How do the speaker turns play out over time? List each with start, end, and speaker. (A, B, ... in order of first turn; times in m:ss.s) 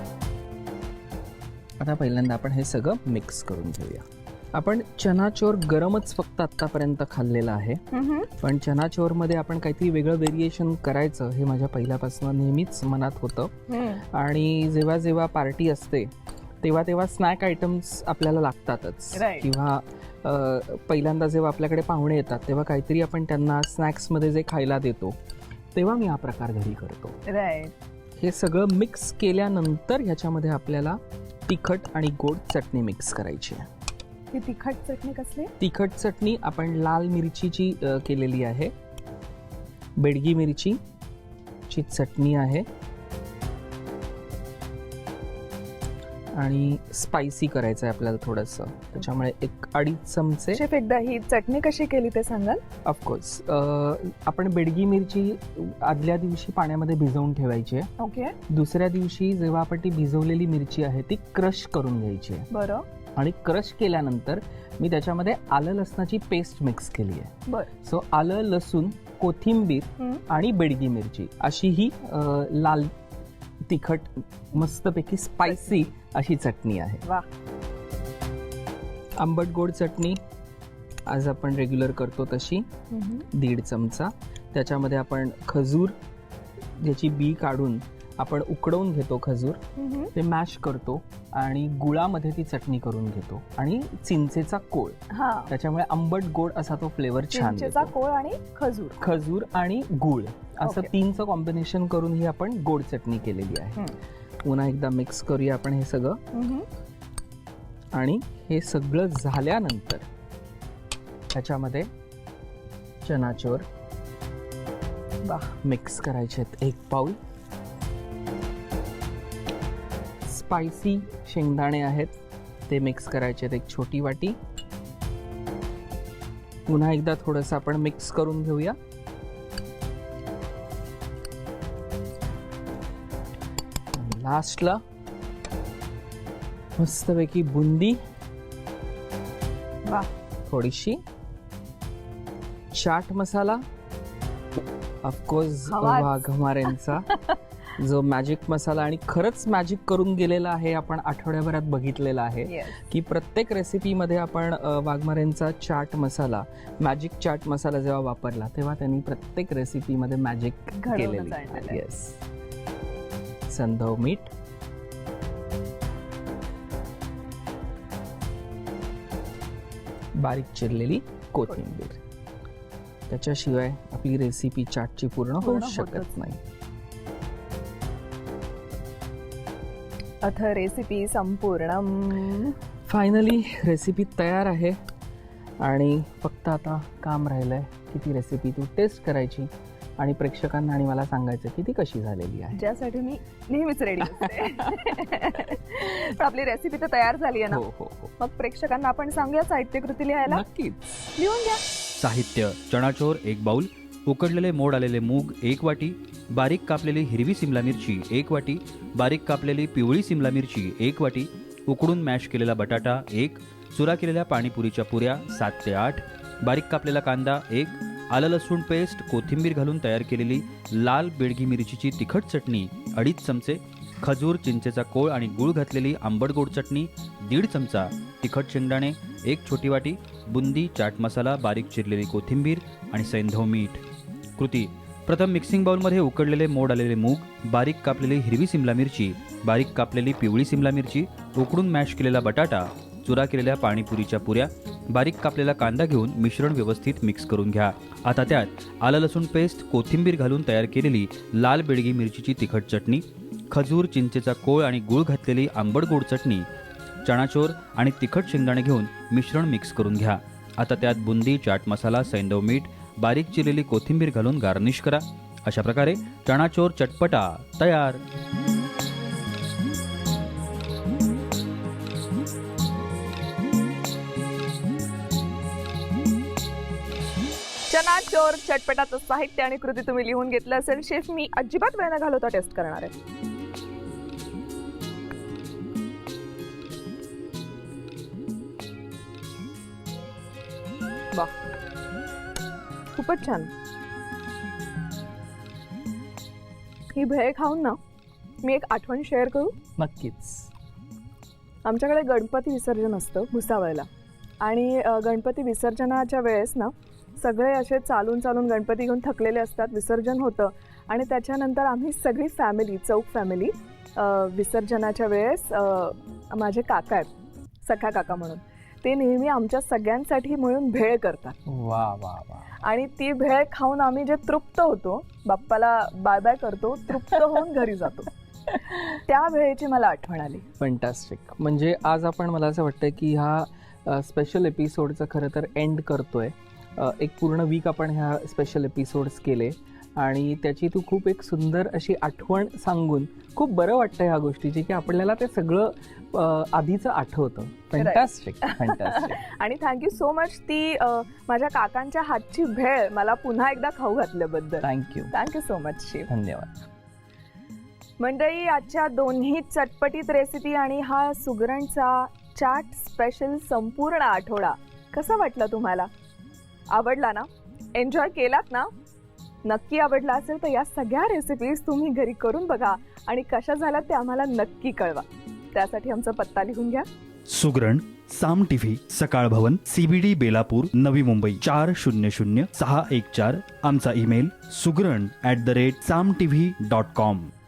0:01.8-0:13.5 A
0:07.9-0:08.3 B
0:13.7-0:14.0 B
0:14.0-0:25.2 A
0:19.1-0:19.5 B
0:25.7-0:27.2 A
0:27.2-0:27.7 B
0:28.2-0:33.7 A
0:34.3-0:35.5 B
0:35.6-0:38.7 A
0:40.0-0:40.8 A
0:41.7-0:42.6 A
0:46.3-0:50.6 A
0:50.5-0:52.6 B
0:52.8-0:57.9 A
0:58.0-0:58.4 B
0:58.5-1:02.4 A
1:02.5-1:02.8 B
1:03.2-1:12.9 A
1:13.7-1:17.0 A
1:15.5-1:15.7 B
1:19.2-1:20.2 A
1:21.1-1:22.7 A
1:22.9-1:23.3 B
1:23.3-1:26.0 A
1:26.8-1:29.6 A
1:29.8-1:30.1 B
1:30.1-1:37.9 A
1:35.1-1:35.5 B
1:37.3-1:39.0 B
1:39.0-1:43.9 A
1:40.6-1:40.9 B
1:44.4-1:46.2 A
1:46.3-1:46.6 B
1:47.9-1:50.0 A
1:51.3-1:51.9 A
1:53.0-1:53.6 A
1:55.2-1:55.5 B
1:55.6-1:57.2 A
2:00.3-2:02.1 A
2:02.7-2:04.4 A
2:06.7-2:08.8 A
2:13.9-2:14.8 A
2:16.8-2:18.0 A
2:20.4-2:21.0 A
2:22.7-2:23.6 A
2:25.0-2:27.1 A
2:25.7-2:26.2 B
2:27.8-2:42.2 A
2:32.4-2:32.8 B
2:40.7-2:41.8 B
2:43.5-2:44.3 A
2:50.2-2:52.0 A
2:53.1-2:56.4 A
2:55.4-2:56.1 B
3:00.2-3:02.6 B
3:02.8-3:04.8 A
3:05.6-3:12.6 A
3:12.5-3:17.6 B
3:17.5-3:18.1 A
3:18.2-3:20.4 B
3:20.3-3:21.1 A
3:21.1-3:21.6 B
3:22.0-3:53.8 C
3:54.4-4:16.4 C
4:17.0-4:28.0 C
4:37.7-4:42.9 B
4:52.9-4:53.5 B
4:56.9-4:57.8 B
4:58.4-4:59.6 B
4:59.8-5:00.5 A
5:01.6-5:03.9 B
5:04.4-5:17.1 B
5:17.6-5:21.4 B
5:21.4-5:22.6 A
5:22.6-5:28.1 B
5:28.8-5:30.4 B
5:30.6-5:49.2 A
5:47.8-5:56.1 B
5:54.6-5:55.1 A
5:56.1-5:56.6 A
5:58.0-6:05.9 B
6:06.7-6:08.7 B
6:09.4-6:16.8 B
6:17.3-6:27.3 C